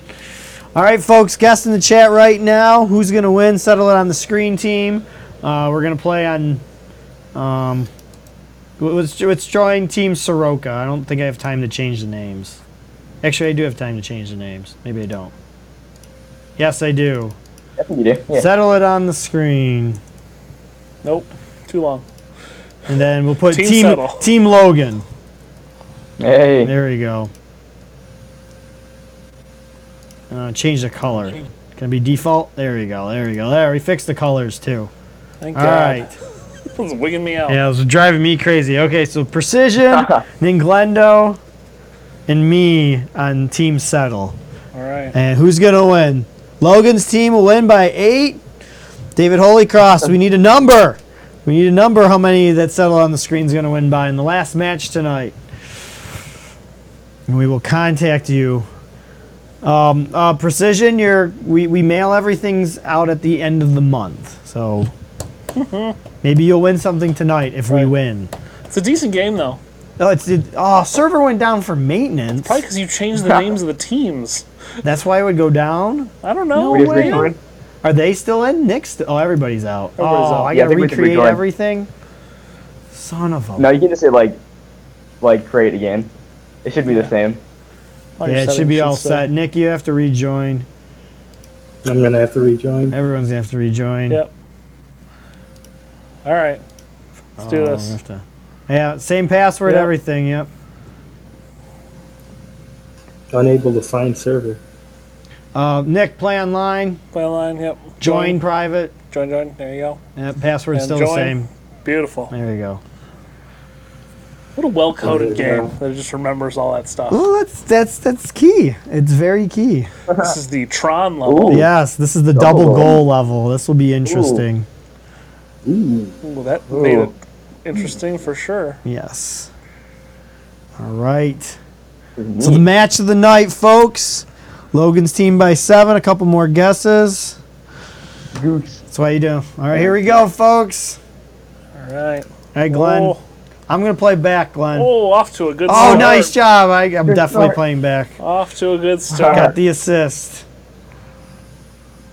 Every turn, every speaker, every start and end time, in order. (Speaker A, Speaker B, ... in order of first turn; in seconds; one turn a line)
Speaker A: 0.7-6.6
Speaker A: 7.3-7.9
Speaker A: 8.8-12.6
Speaker A: 13.2-15.3
Speaker A: 16.6-17.4
Speaker B: 17.8-18.5
Speaker A: 18.3-20.0
Speaker C: 21.0-22.0
Speaker A: 22.9-25.0
Speaker C: 23.5-24.2
Speaker B: 26.2-26.7
Speaker A: 26.6-27.3
Speaker A: 30.3-34.9
Speaker C: 35.4-36.1
Speaker A: 35.5-36.1
Speaker C: 36.7-37.6
Speaker A: 37.5-41.4
Speaker A: 42.3-44.4
Speaker C: 44.7-45.1
Speaker A: 45.1-48.4
Speaker A: 49.1-55.4
Speaker A: 57.3-58.7
Speaker A: 59.6-64.9
Speaker C: 65.5-66.0
Speaker A: 66.2-68.3
Speaker C: 68.7-69.6
Speaker A: 70.0-72.6
Speaker C: 72.4-74.5
Speaker B: 73.2-73.5
Speaker A: 74.8-81.9
Speaker C: 76.2-77.3
Speaker B: 76.7-77.4
Speaker C: 80.0-80.5
Speaker B: 80.5-81.4
Speaker A: 82.9-83.7
Speaker B: 83.6-84.4
Speaker B: 85.2-86.1
Speaker B: 86.6-87.4
Speaker C: 86.8-87.1
Speaker C: 88.2-89.3
Speaker A: 88.2-90.7
Speaker D: 91.8-93.0
Speaker A: 92.9-94.2
Speaker C: 96.2-96.6
Speaker A: 97.4-100.5
Speaker C: 97.4-98.0
Speaker C: 99.7-99.9
Speaker D: 103.3-104.6
Speaker A: 105.5-107.0
Speaker C: 107.1-108.4
Speaker A: 108.0-108.9
Speaker C: 109.1-110.0
Speaker A: 110.2-111.5
Speaker C: 110.7-112.3
Speaker A: 112.3-112.8
Speaker C: 114.5-117.2
Speaker D: 115.0-115.7
Speaker B: 115.2-115.7
Speaker A: 117.1-119.9
Speaker C: 120.1-121.7
Speaker B: 121.2-121.7
Speaker A: 121.5-124.7
Speaker B: 122.3-123.0
Speaker B: 124.0-124.4
Speaker B: 125.6-126.2
Speaker C: 126.2-128.8
Speaker B: 126.7-127.1
Speaker A: 128.8-129.5
Speaker A: 130.8-131.6
Speaker B: 132.2-132.6
Speaker A: 132.4-137.4
Speaker B: 138.3-138.8
Speaker A: 138.9-141.0
Speaker B: 139.7-140.2
Speaker C: 141.8-143.2
Speaker A: 142.5-143.2
Speaker A: 143.7-144.9
Speaker C: 144.7-146.3
Speaker A: 145.7-148.2
Speaker B: 145.7-146.1
Speaker B: 147.1-147.6
Speaker C: 148.2-149.5
Speaker B: 149.1-149.5
Speaker A: 149.2-150.4